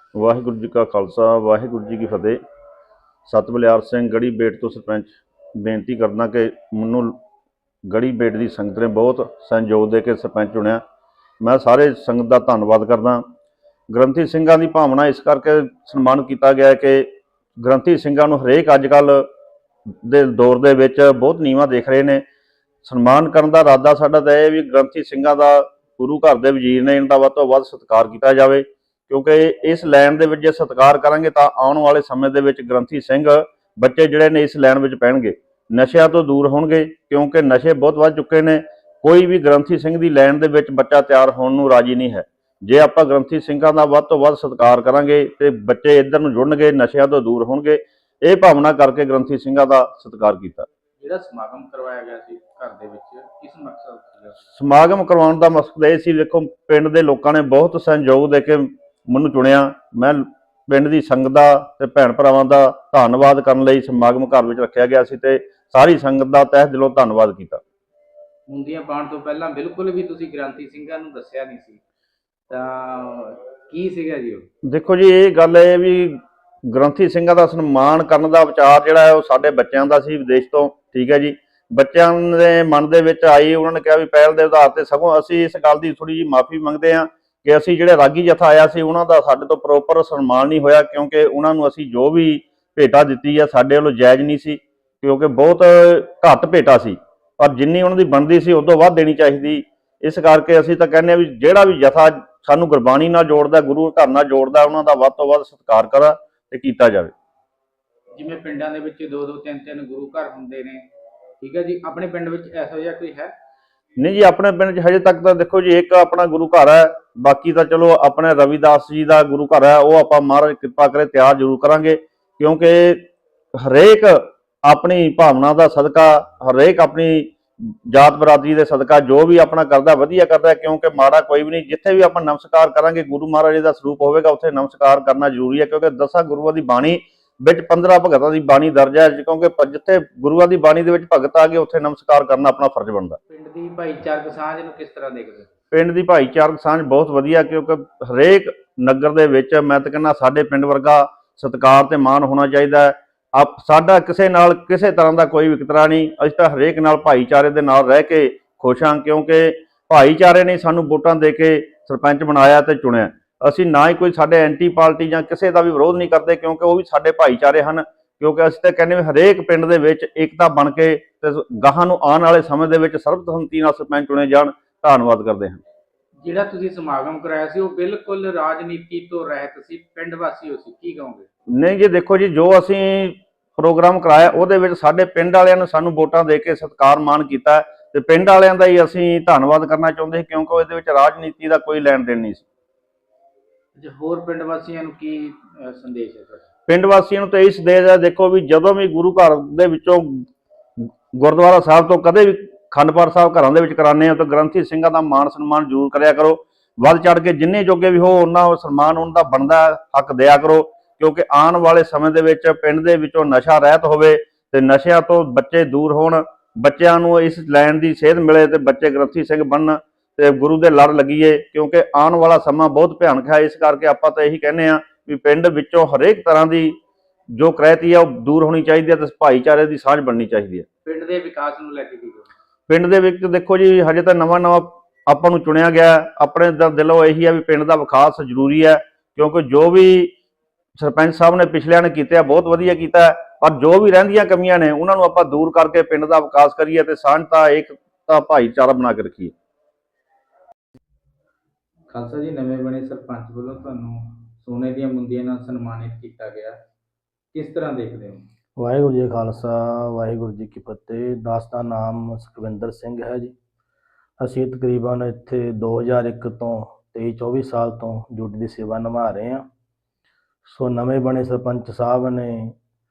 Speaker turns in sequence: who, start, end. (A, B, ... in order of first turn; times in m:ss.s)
0:00.2-0:02.4 A
0:03.3-0:07.2 A
0:07.9-0:10.8 A
0:11.4-0:13.2 A
0:13.9-0:19.3 A
0:20.0-0:22.2 A
0:22.8-0:50.7 A
0:51.0-0:54.4 B
0:54.6-1:07.6 A
1:08.5-1:11.8 B
1:12.5-1:14.5 B
1:14.7-1:16.2 A
1:16.7-1:47.1 A
1:48.2-1:50.9 B
1:51.4-1:53.3 B
1:54.0-2:23.2 A
2:23.3-2:25.5 B
2:25.7-2:55.6 A
2:56.2-3:01.3 B
3:01.6-3:12.5 A
3:13.8-3:16.5 B
3:16.7-3:20.3 A
3:21.2-3:46.8 A
3:47.4-3:50.6 A
3:50.8-3:52.3 B
3:52.7-4:00.1 A
4:00.8-4:09.3 A
4:11.9-4:16.6 B
4:17.3-4:18.3 B
4:18.6-4:23.3 C
4:24.2-4:29.4 C
4:30.5-4:32.6 C